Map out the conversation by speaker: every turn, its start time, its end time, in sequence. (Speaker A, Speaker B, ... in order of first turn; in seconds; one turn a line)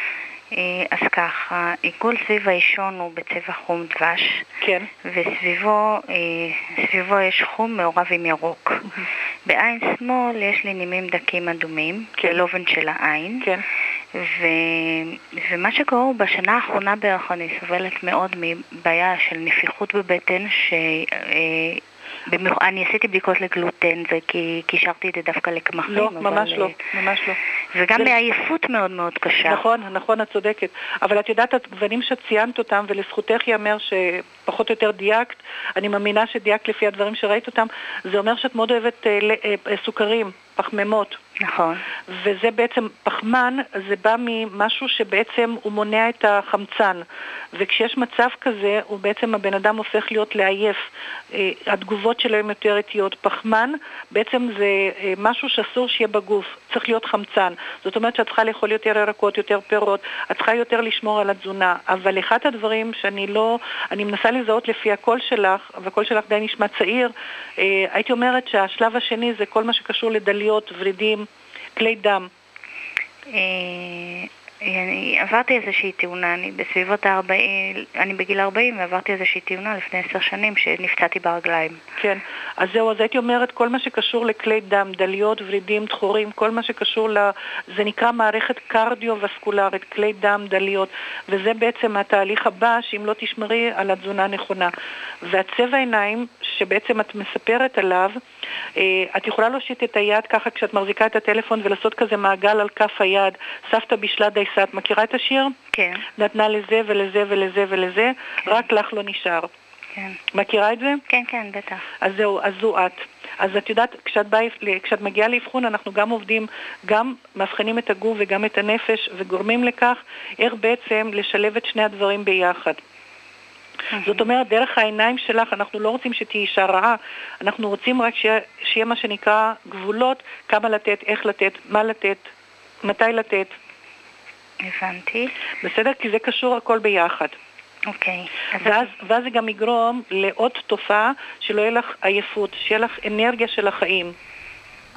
Speaker A: 0.5-4.5
Speaker B: 4.6-4.9
Speaker A: 5.0-13.5
Speaker A: 14.1-26.8
Speaker B: 25.9-27.4
Speaker A: 27.7-29.6
Speaker B: 29.4-41.2
Speaker A: 41.4-41.9
Speaker B: 42.1-50.8
Speaker B: 51.3-71.2
Speaker B: 71.8-72.3
Speaker A: 73.3-81.8
Speaker B: 82.0-98.2
Speaker B: 98.8-105.5
Speaker A: 105.7-106.0
Speaker B: 106.2-109.5
Speaker A: 109.9-110.2
Speaker B: 110.3-111.0
Speaker A: 111.1-111.9
Speaker B: 112.0-122.8
Speaker A: 123.9-124.2
Speaker B: 124.0-132.3
Speaker B: 132.8-133.5
Speaker A: 134.6-135.3
Speaker B: 135.6-137.4
Speaker A: 137.9-138.9
Speaker B: 138.6-144.1